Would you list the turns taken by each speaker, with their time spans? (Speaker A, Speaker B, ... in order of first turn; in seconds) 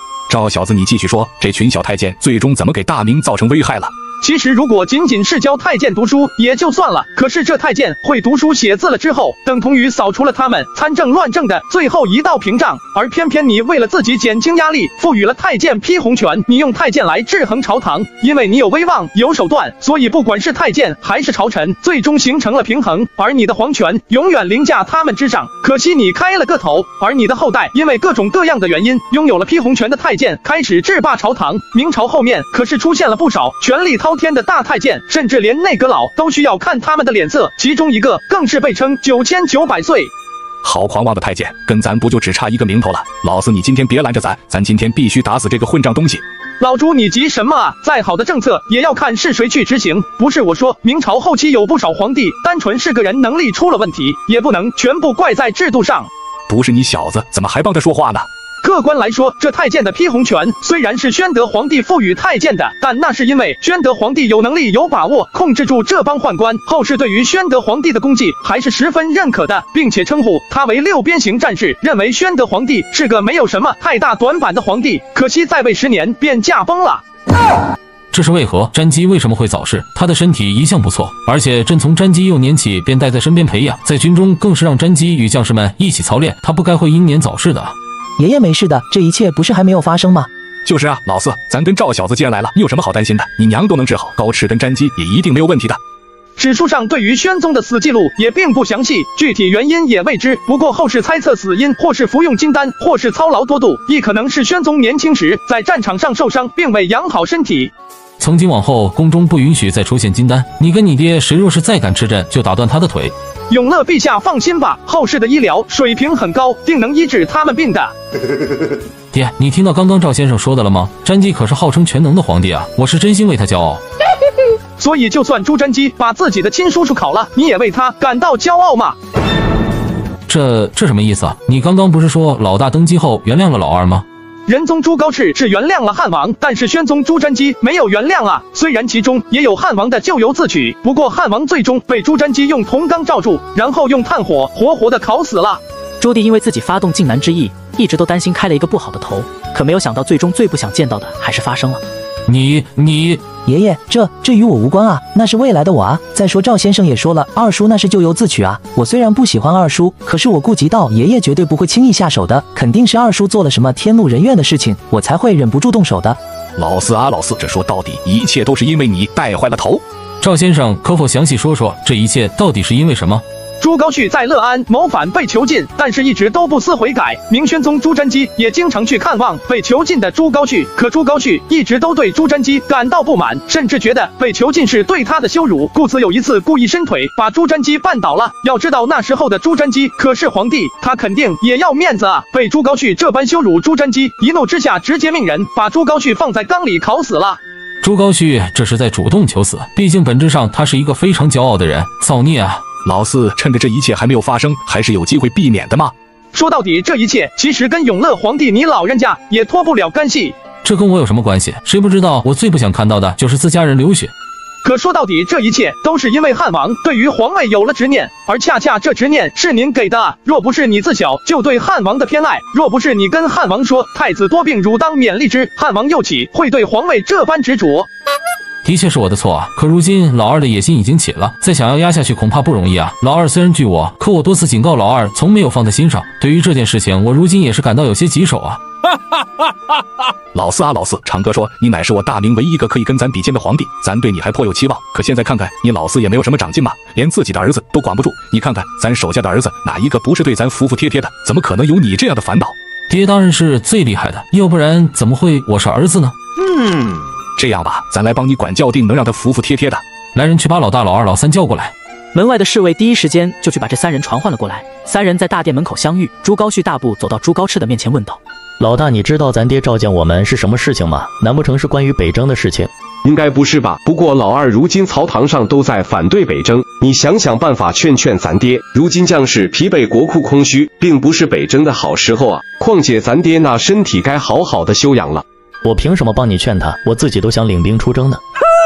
Speaker A: 0.3-3.9, 40.6-46.2, 56.5-58.3, 90.6-95.8, 166.6-169.8, 202.8-205.9, 240.3-252.5, 257.4-259.8
Speaker B: 4.2-40.1, 46.6-56.1, 58.6-77.0, 96.3-107.7, 113.5-117.9, 124.8-129.0, 134.4-145.6, 173.6-197.4, 206.3-210.3, 214.6-227.9
Speaker C: 78.1-87.7, 108.2-113.1, 119.1-123.8, 130.3-134.0, 152.3-153.2, 170.2-173.2, 197.8-202.6, 210.6-214.1, 228.6-238.6, 252.9-256.1, 260.1-261.7
Speaker D: 88.2-90.3, 153.4-166.2
Speaker E: 146.0-151.8, 262.1-268.2
Speaker F: 268.6-272.7, 285.6-288.2
Speaker G: 273.0-285.2